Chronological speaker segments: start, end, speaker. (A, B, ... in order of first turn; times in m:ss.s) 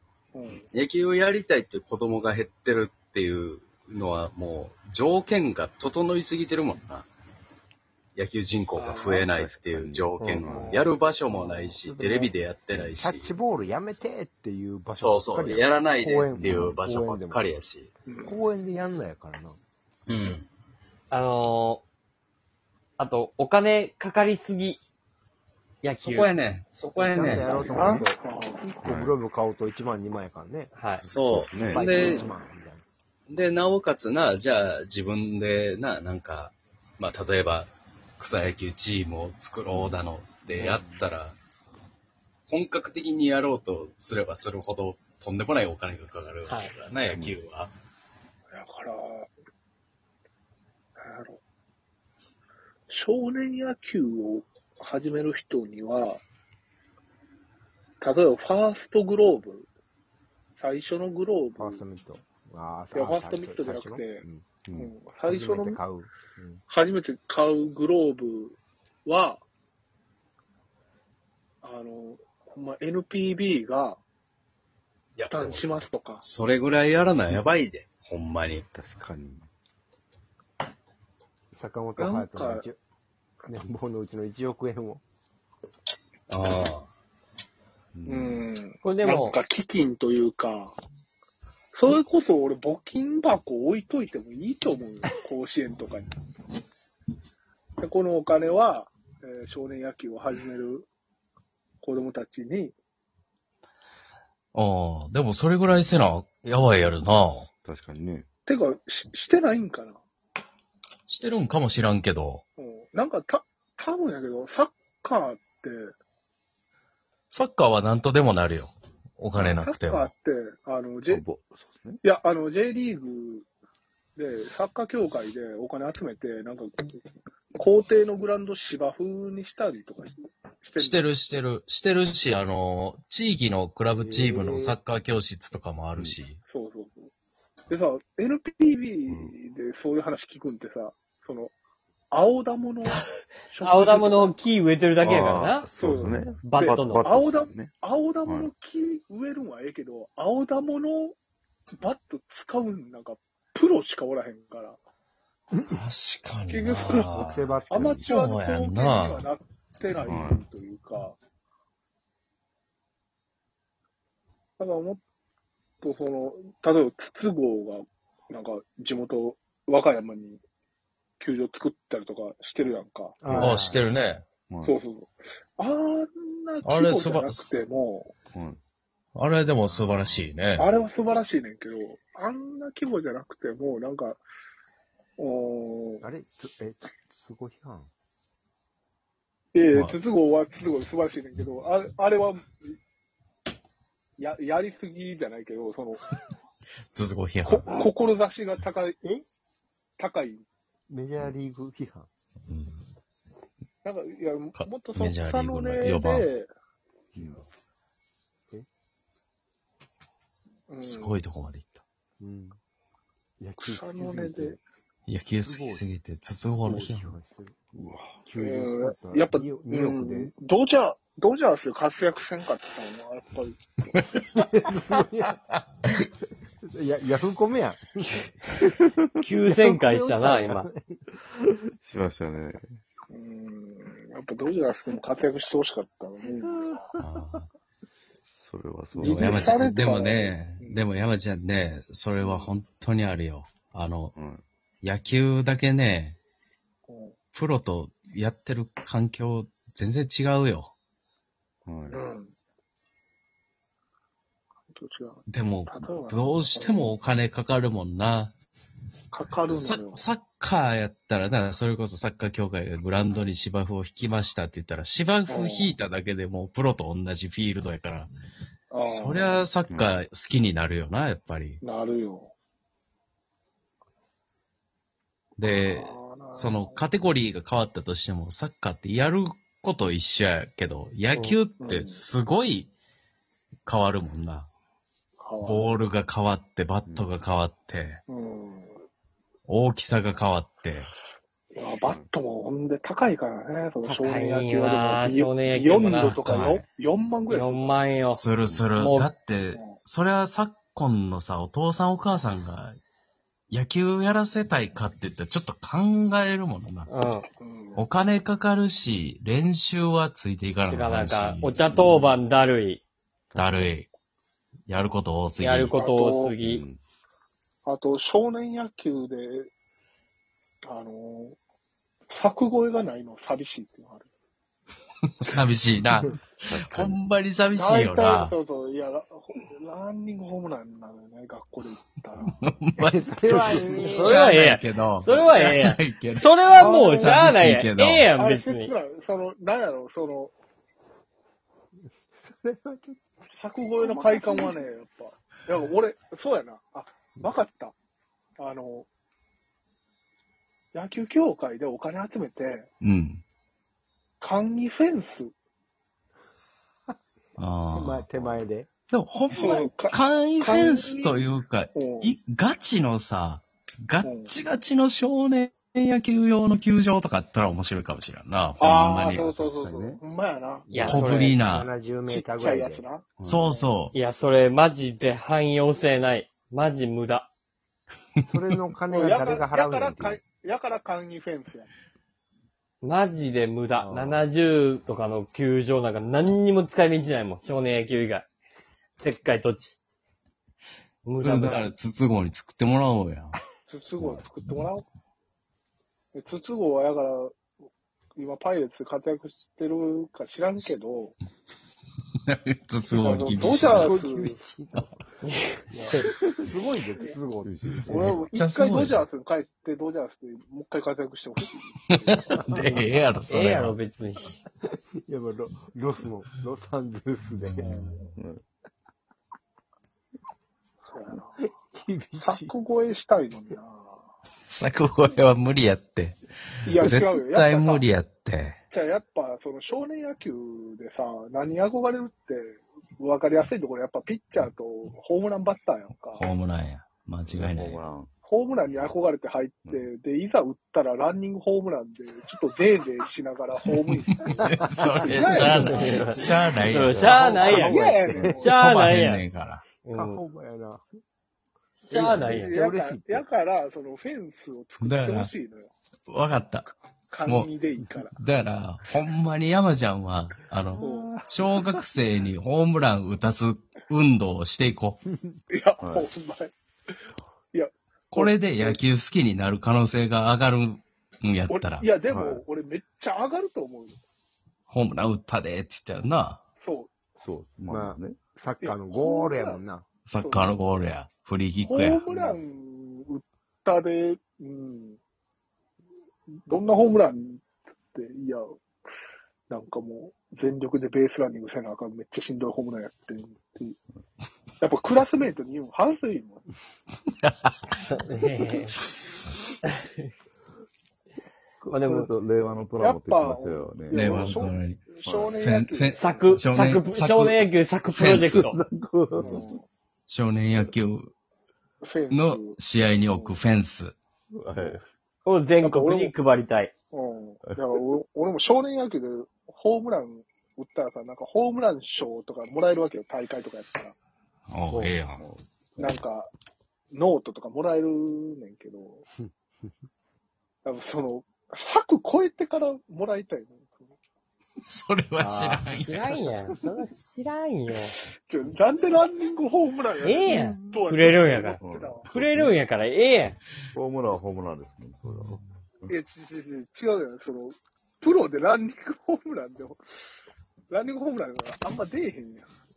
0:00.3-0:00.7 A
0:00.7-0:07.1 B
0:08.2-0:13.3 B
0:08.8-0:09.3 A
0:09.2-0:10.8 C
0:10.2-0:12.3 D
0:12.9-0:17.4 D
0:15.0-0:17.9 B
0:16.4-0:16.8 C
0:18.0-0:18.4 A
0:18.2-0:19.6 D
0:20.1-0:20.5 B
0:21.1-0:21.8 E
0:23.0-0:24.8 E
0:25.8-0:26.3 E
0:26.0-0:27.8 B
0:27.0-0:30.7 D
0:27.7-0:28.7 A
0:28.8-0:29.1 C
0:30.7-0:31.0 E
0:31.0-0:32.3 B
0:31.3-0:32.1 C
0:31.5-0:32.8 D
0:33.3-0:41.4 B
0:39.7-0:41.0 C
0:42.5-0:47.7 B
0:46.4-0:46.7 E
0:47.1-0:47.4 C
0:48.5-0:49.3 A
0:51.0-0:51.4 A
0:52.9-0:56.2 A
0:58.0-0:59.7 A
1:00.6-1:01.8 A
1:01.6-1:04.5 D
1:02.9-1:04.2 A
1:04.6-1:04.9 C
1:04.8-1:05.8 A
1:05.2-1:06.6 D
1:06.7-1:09.4 A
1:11.6-1:14.0 A
1:15.2-1:18.6 B
1:15.3-1:16.2 A
1:18.7-1:19.5 C
1:21.5-1:22.8 D
1:22.0-1:22.7 A
1:23.5-1:25.0 D
1:26.3-1:26.9 B
1:27.9-1:28.5 C
1:28.1-1:30.7 A
1:28.8-1:29.4 E
1:31.7-1:36.1 A
1:37.8-1:40.9 A
1:41.8-1:42.7 A
1:44.5-1:47.5 B
1:47.6-1:48.3 C
1:48.5-1:50.0 A
1:51.1-1:52.4 B
1:52.6-1:55.9 A
1:57.3-2:00.1 B
1:59.4-2:01.2 A
2:01.1-2:02.0 C
2:02.0-2:03.5 A
2:04.2-2:07.0 A
2:07.6-2:11.1 A
2:10.8-2:16.4 B
2:14.0-2:14.8 D
2:16.5-2:17.1 A
2:17.7-2:21.5 A
2:19.1-2:19.3 C
2:22.1-2:24.3 A
2:23.6-2:25.7 E
2:25.0-2:28.5 C
2:25.7-2:31.1 A
2:26.4-2:27.1 E
2:31.8-2:34.8 A
2:35.5-2:35.8 D
2:35.7-2:39.3 B
2:36.5-2:41.2 A
2:37.1-2:38.0 D
2:37.8-2:38.1 C
2:40.0-2:40.4 C
2:44.6-2:45.0 A
2:45.8-2:50.4 A
2:51.2-2:53.6 A
2:53.2-2:53.8 D
2:53.3-2:54.3 B
2:54.5-2:54.8 C
2:54.6-2:58.1 A
2:56.6-2:57.4 B
2:58.3-2:58.6 C
2:59.1-3:00.7 B
2:59.6-3:00.3 D
3:00.6-3:04.2 A
3:05.2-3:06.0 A
3:06.0-3:07.9 D
3:09.5-3:12.8 A
3:09.7-3:10.0 B
3:14.2-3:16.0 A
3:16.9-3:17.7 B
3:17.4-3:19.0 A
3:20.0-3:20.4 A
3:20.9-3:22.1 D
3:22.5-3:22.8 B
3:23.8-3:26.5 A
3:24.6-3:26.3 B
3:27.1-3:27.4 D
3:30.7-3:31.2 A
3:30.8-3:31.8 B
3:32.2-3:32.6 D
3:33.4-3:34.6 D
3:33.6-3:34.6 A
3:35.1-3:37.1 B
3:35.4-3:35.8 D
3:36.6-3:37.6 D
3:37.7-3:38.2 C
3:38.2-3:40.3 D
3:38.4-3:43.6 A
3:44.3-3:45.4 D
3:46.7-3:48.8 D
3:49.2-3:50.7 E
3:49.6-3:51.0 D
3:51.8-3:52.8 C
3:53.1-3:56.7 A
3:56.5-3:57.0 D
3:57.0-3:57.5 B
3:58.3-3:59.6 C
3:58.9-4:00.8 A
3:59.1-4:04.2 B
4:02.2-4:02.6 A
4:04.1-4:04.4 C
4:04.8-4:06.2 B
4:06.9-4:07.1 A
4:07.3-4:10.7 B
4:11.6-4:12.0 C
4:11.9-4:12.3 A
4:14.7-4:16.9 A
4:15.3-4:18.3 B
4:19.1-4:20.1 A
4:19.5-4:28.1 B
4:25.3-4:25.8 A
4:28.7-4:29.5 A
4:28.9-4:31.6 B
4:29.7-4:30.0 C
4:31.6-4:32.3 A
4:35.4-4:42.7 B
4:35.4-4:36.9 A
4:41.6-4:42.0 A
4:43.6-4:44.5 B
4:45.2-4:45.7 A
4:45.4-4:48.0 B
4:46.8-4:47.1 C
4:48.1-4:48.7 A
4:49.5-4:50.9 B
4:51.5-4:57.8 A
4:51.8-4:52.1 C
4:53.8-4:56.2 E
4:56.0-4:56.6 B
4:57.3-4:58.2 E
4:58.1-5:02.8 B
4:58.8-4:59.1 E
5:03.5-5:06.9 B
5:06.9-5:07.3 E
5:07.4-5:07.9 A
5:07.8-5:11.9 B
5:10.7-5:12.8 E
5:11.7-5:12.1 C
5:13.3-5:13.7 C
5:13.3-5:13.9 B
5:14.7-5:15.7 B
5:15.4-5:16.6 E
5:15.7-5:16.4 A
5:16.4-5:16.8 C
5:17.6-5:19.5 A
5:20.7-5:21.4 A
5:22.1-5:24.1 A
5:25.2-5:28.4 B
5:26.5-5:27.0 C
5:27.5-5:32.4 A
5:32.3-5:38.1 B
5:32.8-5:34.2 D
5:33.3-5:38.7 E
5:36.6-5:37.1 A
5:38.2-5:40.3 A
5:42.2-5:43.2 D
5:43.3-5:47.7 A
5:43.8-5:44.6 D
5:48.4-5:48.9 A
5:50.7-5:52.7 A
5:52.8-5:53.2 B
5:54.2-5:55.3 A
5:57.4-6:09.3 B
5:57.7-5:58.7 D
5:59.3-6:02.1 A
6:04.0-6:04.3 A
6:08.6-6:10.7 A
6:09.1-6:10.0 C
6:10.7-6:12.8 D
6:10.7-6:11.4 E
6:10.8-6:11.7 B
6:12.1-6:13.7 A
6:13.2-6:13.5 C
6:13.2-6:13.9 B
6:13.9-6:17.3 E
6:18.3-6:20.2 D
6:18.9-6:21.7 A
6:22.8-6:28.3 E
6:23.8-6:24.2 C
6:29.0-6:29.8 E
6:31.0-6:31.7 E
6:31.2-6:33.4 B
6:33.6-6:34.8 A
6:36.1-6:37.4 A
6:38.2-6:41.2 A
6:42.3-6:44.0 B
6:43.0-6:44.4 A
6:43.0-6:45.0 D
6:45.2-6:45.6 E
6:45.7-6:48.2 D
6:47.4-6:48.2 C
6:47.9-6:52.5 A
6:48.3-6:49.0 B
6:52.1-6:53.8 B
6:52.4-6:52.8 D
6:52.5-6:54.4 E
6:55.0-6:57.9 D
6:57.5-6:58.1 B
6:57.6-6:58.0 A
6:58.2-6:58.4 C
7:00.8-7:01.3 A
7:01.6-7:02.5 D
7:02.2-7:04.0 A
7:04.5-7:08.6 B
7:06.6-7:07.9 A
7:08.7-7:16.2 A
7:16.1-7:17.8 B
7:17.3-7:18.1 C
7:18.2-7:24.5 A
7:24.3-7:27.2 B
7:24.4-7:26.4 D
7:25.1-7:25.9 A
7:25.6-7:29.2 E
7:26.9-7:27.2 C
7:27.0-7:28.4 D
7:27.3-7:28.6 A
7:28.5-7:29.6 B
7:29.8-7:30.2 E
7:29.9-7:30.8 D
7:31.8-7:32.6 E
7:31.9-7:35.7 A
7:31.9-7:33.2 D
7:34.8-7:35.3 B
7:36.1-7:36.7 B
7:37.1-7:38.1 A
7:37.2-7:37.5 B
7:38.1-7:45.0 B
7:40.8-7:41.3 A
7:45.1-7:45.4 D
7:45.5-7:46.5 A
7:45.8-7:46.1 C
7:47.5-7:48.8 A
7:48.1-7:51.9 B
7:51.5-7:53.9 A
7:52.0-7:52.4 C
7:54.7-7:56.4 B
7:56.6-7:56.9 A
7:57.2-7:58.2 C
7:57.7-7:59.8 D
7:58.6-7:59.6 A
8:00.0-8:02.1 B
8:00.2-8:00.6 A
8:01.6-8:05.0 A
8:06.5-8:07.4 A
8:07.9-8:08.6 A
8:09.5-8:13.8 A
8:14.6-8:16.4 A
8:17.2-8:17.5 B
8:17.8-8:18.8 E
8:19.8-8:20.1 E
8:21.6-8:24.5 C
8:21.6-8:22.1 E
8:22.8-8:26.4 A
8:23.9-8:28.5 B
8:25.0-8:25.5 C
8:25.9-8:28.6 E
8:28.2-8:29.6 C
8:29.2-8:29.6 A
8:30.1-8:31.1 B
8:31.8-8:32.6 A
8:32.1-8:33.9 B
8:33.1-8:33.4 A
8:34.3-8:34.8 C
8:35.2-8:36.7 E
8:35.6-8:36.1 A
8:36.9-8:43.9 A
8:44.5-8:45.2 B
8:44.7-8:46.0 C
8:45.8-8:46.3 A
8:46.9-8:49.0 A
8:50.6-8:53.9 A
8:54.6-8:56.2 B
8:55.2-8:58.0 E
8:58.3-9:02.1 A
9:00.0-9:03.4 E
9:00.3-9:02.6 C
9:03.7-9:05.9 C
9:05.9-9:09.8 A
9:10.7-9:12.4 A